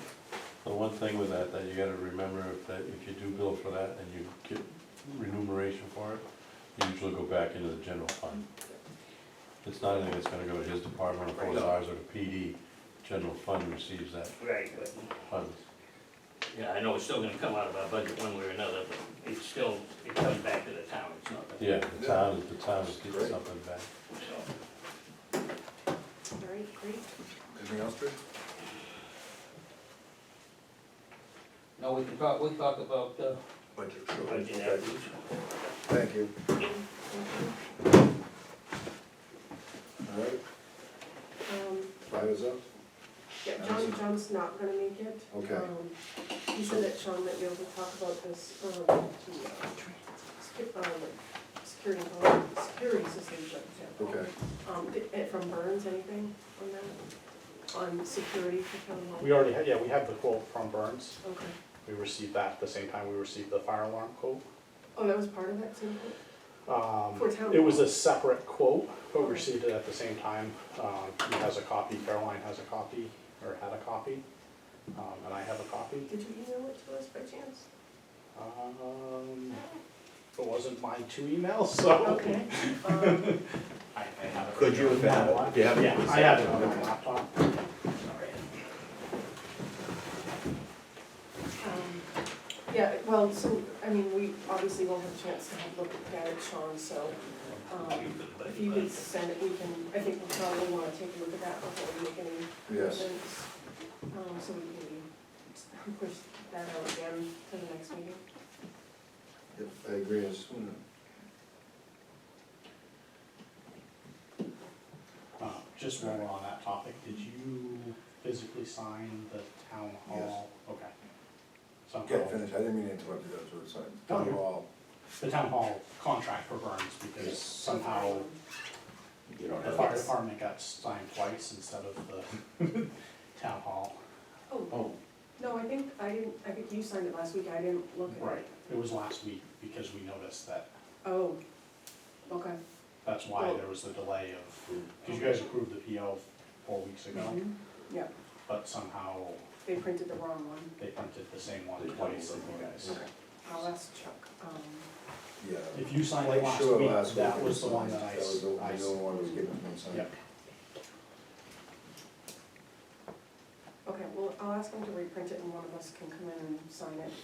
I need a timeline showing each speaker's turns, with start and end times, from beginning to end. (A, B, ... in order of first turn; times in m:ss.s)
0:00.6-0:06.2 A
0:06.8-0:08.5 A
0:09.6-0:14.3 A
0:11.4-0:11.8 B
0:14.4-0:15.1 B
0:15.3-0:15.6 A
0:16.5-0:21.7 B
0:21.6-0:23.9 A
0:22.0-0:23.4 C
0:26.4-0:27.1 D
0:27.5-0:28.2 C
0:31.8-0:33.4 B
0:33.8-0:34.9 C
0:34.2-0:35.1 B
0:35.9-0:36.4 C
0:37.1-0:37.6 D
0:40.0-0:40.4 C
0:41.5-0:42.0 D
0:42.0-0:42.6 C
0:43.4-0:46.0 D
0:43.6-0:44.0 C
0:45.3-0:45.7 C
0:46.5-0:57.0 D
0:54.0-0:54.3 C
0:57.7-0:59.5 D
0:59.2-1:01.2 E
1:01.2-1:01.5 D
1:01.8-1:04.4 E
1:05.0-1:06.2 D
1:06.7-1:14.2 E
1:07.1-1:08.0 D
1:09.2-1:09.5 D
1:14.9-1:16.1 E
1:16.1-1:17.6 D
1:18.4-1:19.6 E
1:20.4-1:23.4 E
1:22.0-1:23.4 D
1:23.9-1:27.4 E
1:24.6-1:26.9 F
1:31.6-1:32.1 D
1:32.7-1:43.5 D
1:37.8-1:39.1 B
1:42.7-1:43.1 C
1:44.1-1:48.2 D
1:49.5-1:50.8 C
1:55.4-2:00.9 E
2:00.1-2:00.4 C
2:01.9-2:02.4 E
2:02.0-2:04.7 C
2:04.1-2:04.4 E
2:05.2-2:08.3 E
2:07.3-2:08.4 D
2:09.3-2:10.0 F
2:09.6-2:14.0 E
2:14.5-2:14.8 D
2:15.4-2:18.5 D
2:18.2-2:20.7 E
2:21.0-2:21.4 D
2:22.3-2:22.6 D
2:23.0-2:27.4 E
2:23.3-2:23.6 D
2:27.1-2:28.1 D
2:28.5-2:29.4 E
2:29.6-2:30.7 D
2:30.8-2:33.0 E
2:31.8-2:33.0 F
2:33.4-2:34.9 D
2:35.4-2:40.1 C
2:35.7-2:39.0 E
2:43.8-2:47.1 D